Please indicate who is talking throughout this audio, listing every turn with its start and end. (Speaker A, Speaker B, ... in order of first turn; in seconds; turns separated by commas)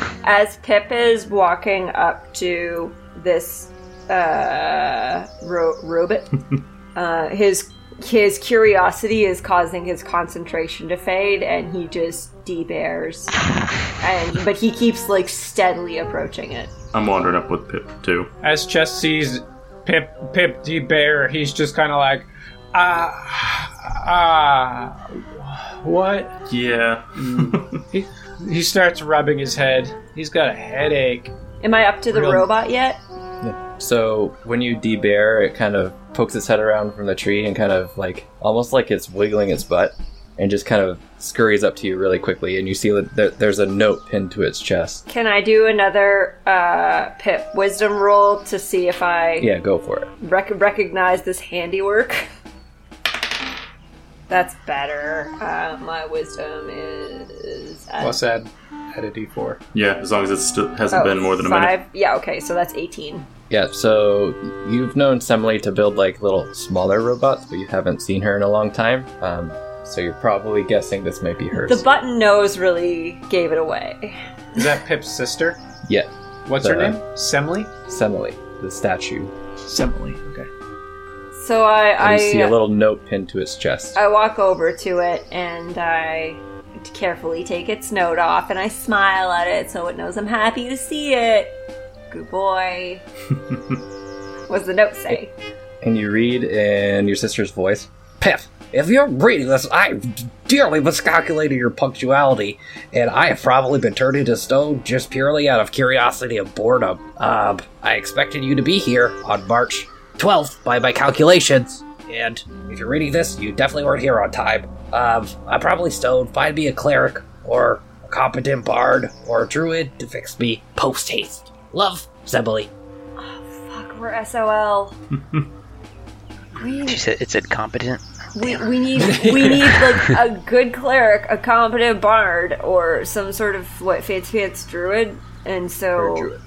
Speaker A: 0.2-6.4, Speaker A: 6.9-16.7, Speaker B: 16.9-18.3, Speaker C: 18.4-26.3, Speaker B: 26.5-27.8, Speaker C: 27.2-31.3, Speaker A: 31.6-33.0, Speaker C: 32.1-32.5, Speaker D: 33.4-45.0, Speaker A: 45.1-49.5, Speaker D: 49.4-50.1, Speaker A: 50.2-52.2, Speaker A: 54.3-58.2, Speaker C: 58.0-59.6, Speaker B: 59.7-61.7, Speaker A: 60.9-63.3, Speaker D: 63.5-71.8, Speaker A: 71.5-74.2, Speaker C: 74.5-75.6, Speaker D: 75.8-77.0, Speaker C: 76.5-77.7, Speaker D: 77.9-79.3, Speaker C: 79.6-80.5, Speaker A: 81.3-82.5, Speaker D: 82.0-84.0, Speaker A: 83.9-91.5, Speaker A: 92.1-93.0, Speaker A: 94.5-95.3, Speaker D: 95.8-99.9, Speaker D: 100.5-122.7, Speaker A: 123.2-125.0, Speaker A: 126.6-127.0, Speaker E: 126.8-130.2, Speaker A: 128.3-136.3, Speaker D: 136.0-136.4